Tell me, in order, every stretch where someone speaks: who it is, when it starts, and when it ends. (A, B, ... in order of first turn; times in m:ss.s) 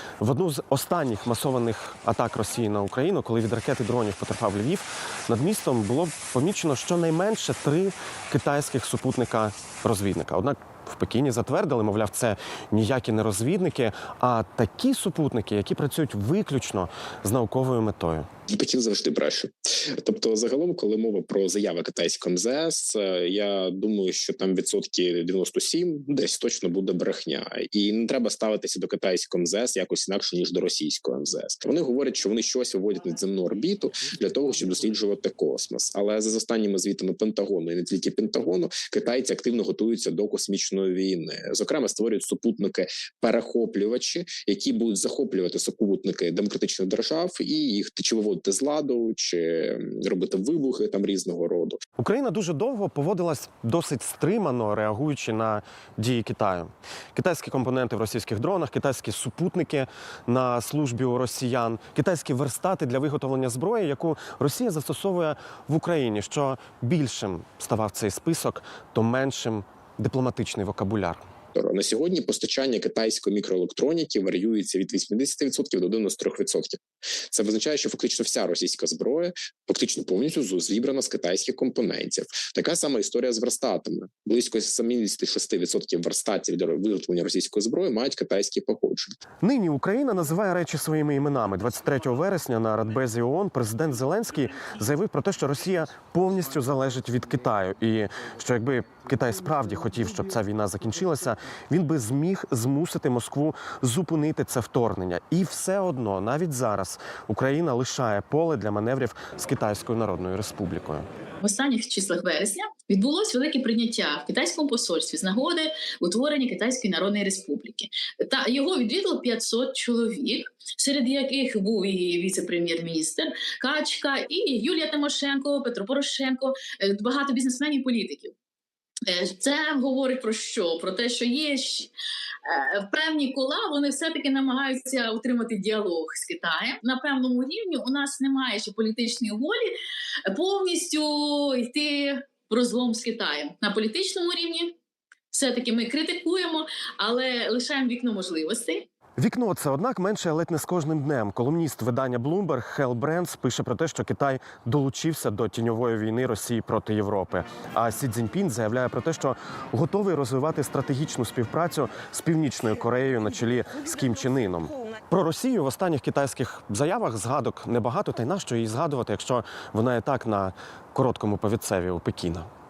0:00.2-0:18.3 A
0:18.5-0:51.8 B
0:52.0-1:11.2 A
1:11.5-1:16.8 B
1:17.3-1:29.2 B
1:29.4-1:51.0 A
1:51.4-2:08.3 C
2:09.0-2:11.9 C
2:12.4-2:19.7 C
2:20.3-2:24.7 C
2:25.3-2:28.8 C
2:29.2-2:52.5 A